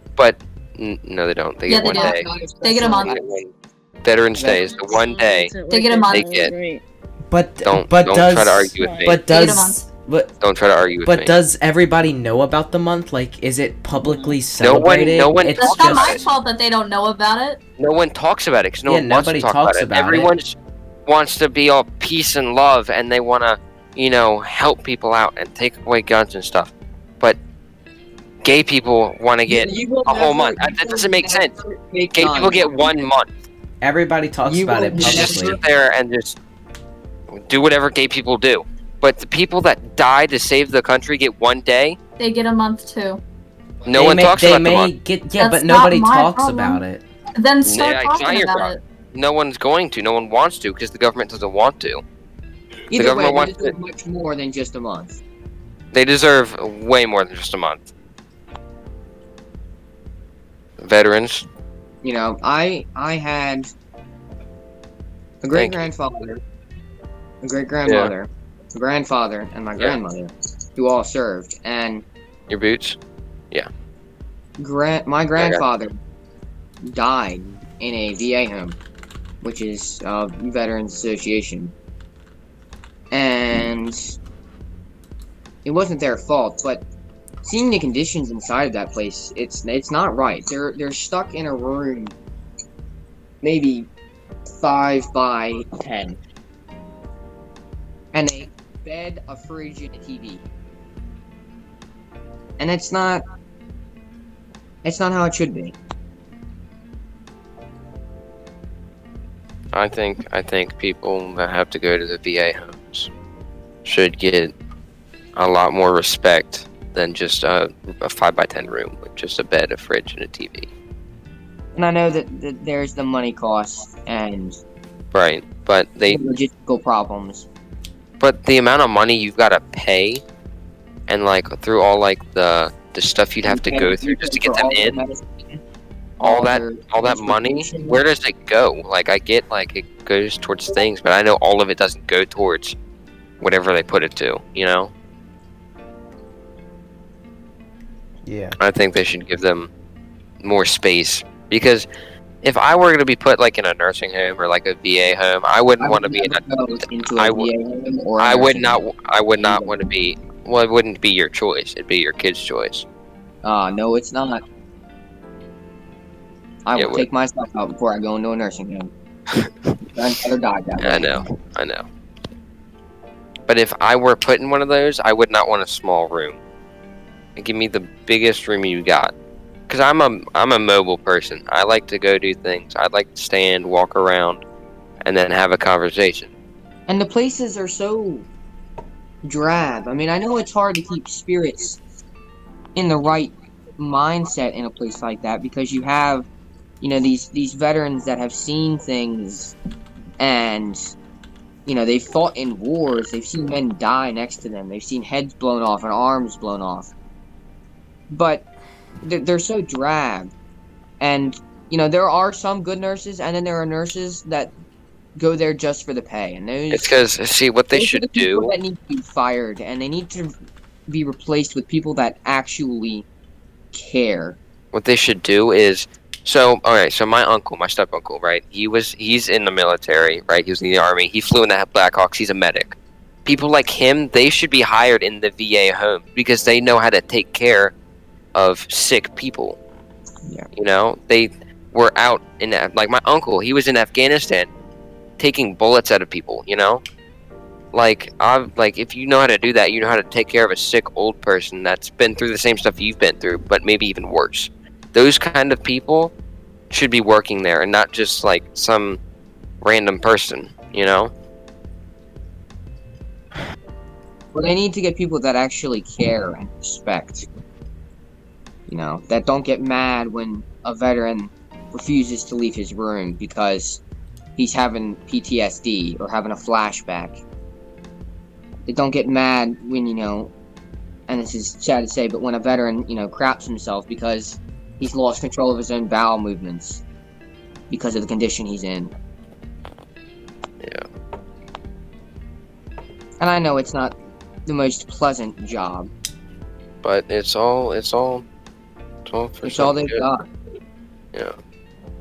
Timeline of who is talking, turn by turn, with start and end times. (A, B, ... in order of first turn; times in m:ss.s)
0:00.2-0:02.2 A
0:01.7-0:03.2 B
0:01.8-0:03.2 C
0:03.0-0:03.5 A
0:04.0-0:05.5 A
0:04.3-0:04.6 C
0:04.6-0:06.8 D
0:05.7-0:06.3 B
0:06.1-0:06.5 A
0:07.3-0:10.3 E
0:07.6-0:09.2 A
0:08.8-0:09.2 D
0:09.2-0:09.9 B
0:10.4-0:11.4 A
0:11.0-0:16.2 E
0:14.0-0:14.4 D
0:14.6-0:16.3 A
0:15.6-0:17.6 B
0:17.8-0:27.4 A
0:18.8-0:20.3 E
0:28.4-0:31.5 A
0:29.5-0:32.9 C
0:32.1-0:33.3 A
0:33.8-0:35.6 E
0:34.4-0:35.6 C
0:35.0-0:36.4 A
0:37.3-0:42.0 A
0:42.2-0:43.2 B
0:43.8-0:44.9 A
0:43.9-0:47.0 E
0:45.4-0:46.8 B
0:47.3-0:48.8 B
0:47.6-0:52.0 A
0:52.9-0:55.2 C
0:52.9-0:53.7 A
0:55.9-0:57.9 A
1:00.8-1:01.5 A
1:02.0-1:03.7 C
1:05.4-1:06.4 C
1:05.5-1:05.8 A
1:07.4-1:12.0 C
1:07.8-1:08.1 A
1:12.5-1:13.0 A
1:14.6-1:15.9 C
1:15.4-1:15.6 A
1:16.8-1:18.8 C
1:19.4-1:21.7 C
1:23.1-1:24.1 C
1:25.6-1:26.8 C
1:27.4-1:32.1 C
1:33.4-1:33.9 C
1:34.6-1:36.2 C
1:38.1-1:40.4 C
1:42.6-1:43.2 C
1:44.8-1:45.8 C
1:49.7-1:53.1 A
1:53.8-1:54.5 A
1:55.4-2:00.7 A
2:01.8-2:04.6 C
2:05.1-2:06.2 A
2:06.1-2:07.4 C
2:08.2-2:10.2 A
2:11.1-2:15.0 A
2:13.4-2:15.6 C
2:16.2-2:18.0 C
2:16.2-2:22.8 A
2:23.4-2:24.9 A
2:28.2-2:28.6 E
2:28.6-2:29.7 A
2:30.4-2:31.8 A
2:32.4-2:36.4 A
2:35.8-2:38.8 C
2:37.2-2:37.5 A
2:38.2-2:42.8 A
2:39.4-2:39.7 C
2:43.4-2:44.4 C
2:46.6-2:48.9 C
2:46.7-2:47.1 A
2:49.3-2:49.7 A
2:49.9-2:51.3 C
2:50.8-2:51.8 A
2:53.5-2:56.4 A
2:57.4-2:59.1 A
2:59.7-3:04.4 A
3:05.0-3:06.3 A
3:06.9-3:08.2 C
3:09.2-3:11.8 C
3:12.7-3:16.2 C
3:16.8-3:19.5 C
3:20.2-3:20.8 C
3:21.6-3:26.9 C
3:28.1-3:28.4 C
3:29.0-3:30.3 C
3:31.0-3:34.5 C
3:35.2-3:37.0 C
3:36.7-3:38.5 A
3:37.7-3:40.3 C
3:40.9-3:43.0 C
3:43.7-3:44.4 C
3:44.7-3:57.7 A
3:58.3-3:59.6 A
4:00.5-4:04.5 A
4:05.2-4:06.8 A
4:07.7-4:16.1 A
4:16.7-4:19.0 A
4:19.6-4:21.1 A
4:24.3-4:27.2 C
4:28.7-4:33.8 C
4:34.4-4:37.2 C
4:38.7-4:40.3 C
4:41.1-4:46.8 C
4:47.7-4:48.9 C
4:53.2-4:53.9 C
4:54.4-4:55.9 C
4:56.8-4:58.2 A
4:59.0-5:00.1 A
4:59.4-5:00.2 C